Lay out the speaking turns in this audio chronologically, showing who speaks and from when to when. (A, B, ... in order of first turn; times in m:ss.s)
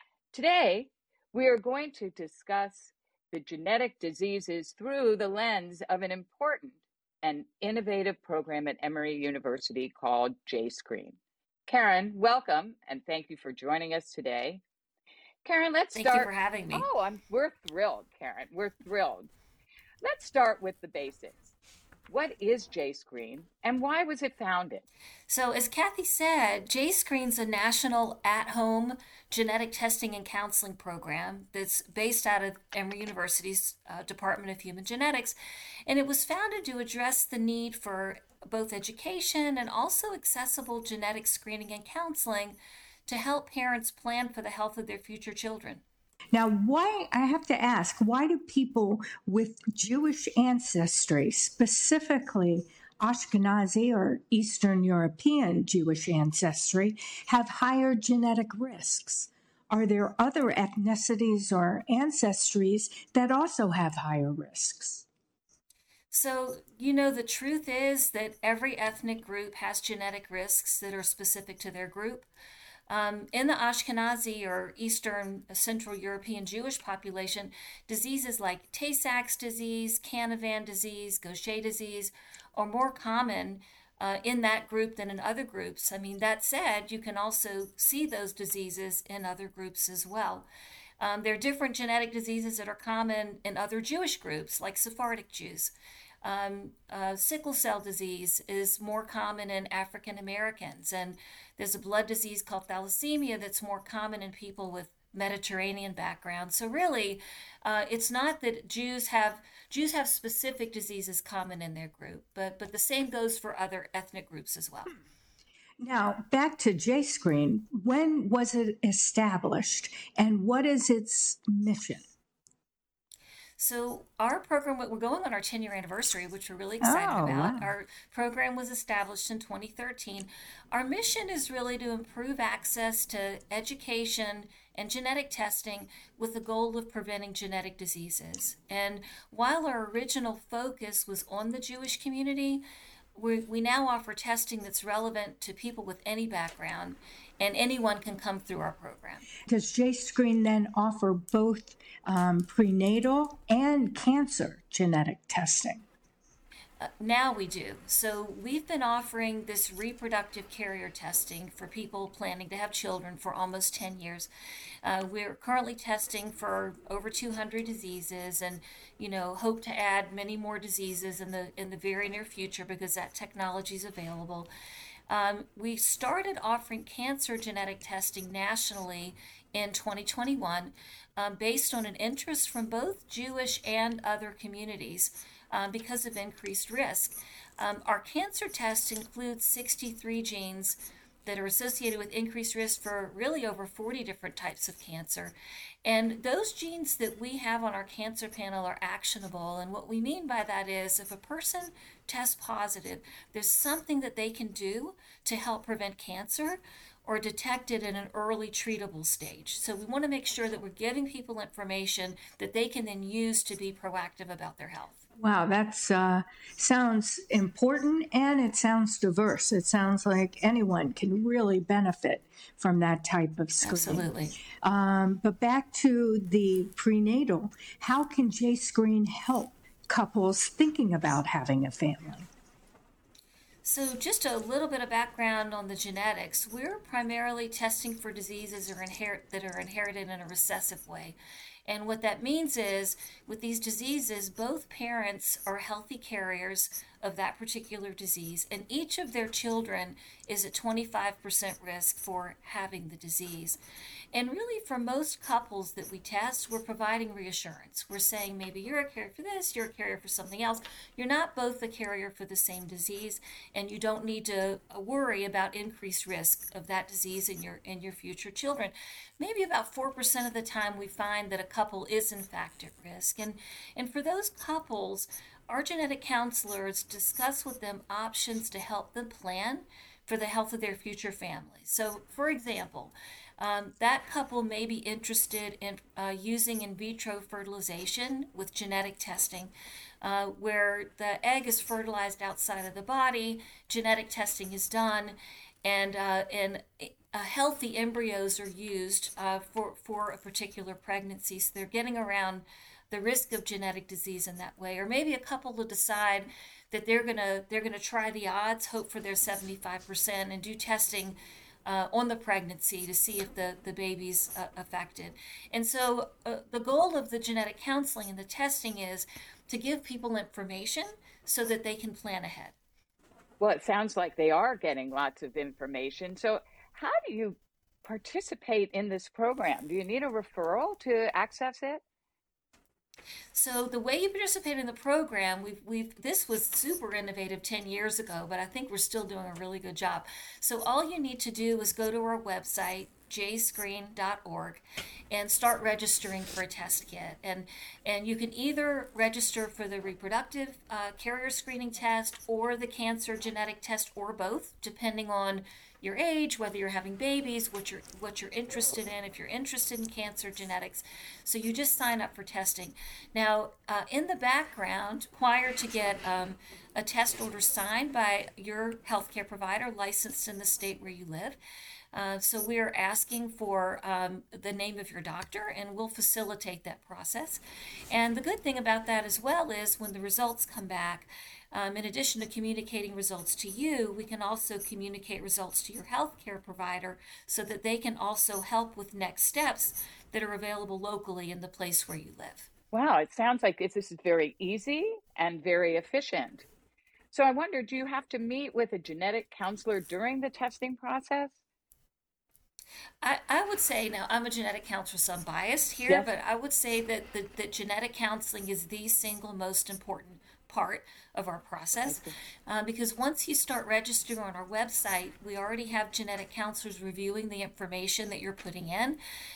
0:00.3-0:14.6 A
0:15.4-0:19.3 A
0:15.9-0:16.8 B
0:20.0-0:21.5 A
0:22.1-0:24.8 A
0:25.3-0:35.4 B
0:35.9-0:45.8 B
0:46.3-1:05.0 C
1:06.1-1:12.3 B
1:12.9-1:30.4 B
1:31.0-1:54.9 B
1:55.8-2:02.0 C
2:03.6-2:22.6 B
2:06.8-2:07.7 C
2:23.2-2:29.3 B
2:29.4-2:35.8 C
2:36.8-2:44.3 B
2:44.8-2:54.5 B
2:55.1-3:15.3 B
3:15.8-3:35.0 B
3:35.2-3:52.3 C
3:43.6-3:44.3 B
3:53.6-4:01.2 B
4:01.7-4:13.6 B
4:14.1-5:22.5 B
5:23.4-5:31.8 A
5:33.3-6:11.4 B
6:11.9-6:32.5 B
6:32.7-6:36.4 A
6:37.1-6:41.3 A
6:43.0-6:59.0 B
6:51.8-6:52.1 A